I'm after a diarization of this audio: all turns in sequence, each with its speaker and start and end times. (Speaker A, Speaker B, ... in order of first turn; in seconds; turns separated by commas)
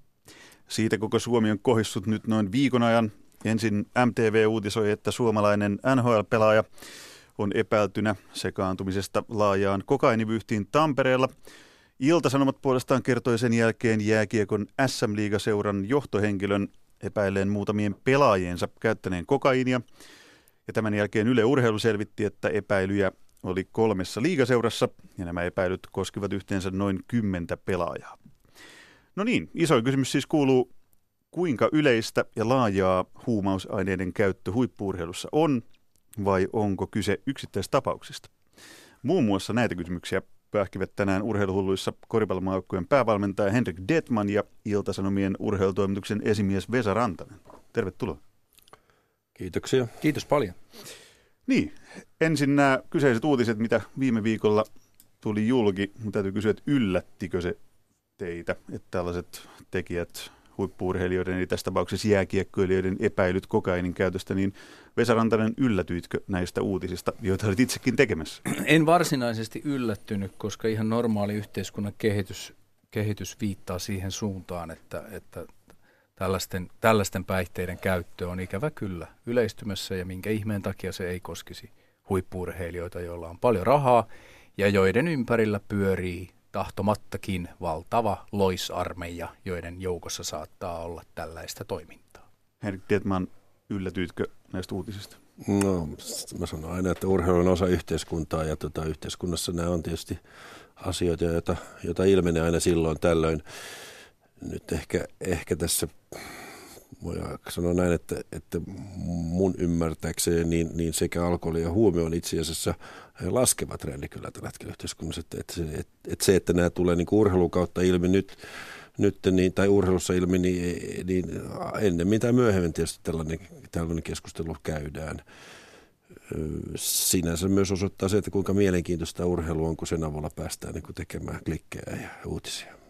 Speaker A: 0.7-6.7, Speaker A: 7.4-11.3, Speaker A: 12.0-19.8, Speaker A: 20.7-28.2, Speaker A: 29.1-30.7, Speaker A: 31.3-35.6, Speaker A: 36.2-38.3, Speaker A: 39.0-48.2, Speaker B: 49.4-50.0, Speaker C: 50.0-50.6, Speaker A: 51.5-54.7, Speaker A: 55.2-57.6, Speaker A: 58.2-68.4, Speaker C: 68.5-75.5, Speaker C: 76.2-92.2, Speaker A: 92.6-95.2, Speaker B: 95.4-100.2, Speaker B: 100.8-103.4, Speaker B: 104.4-125.2, Speaker B: 126.3-132.8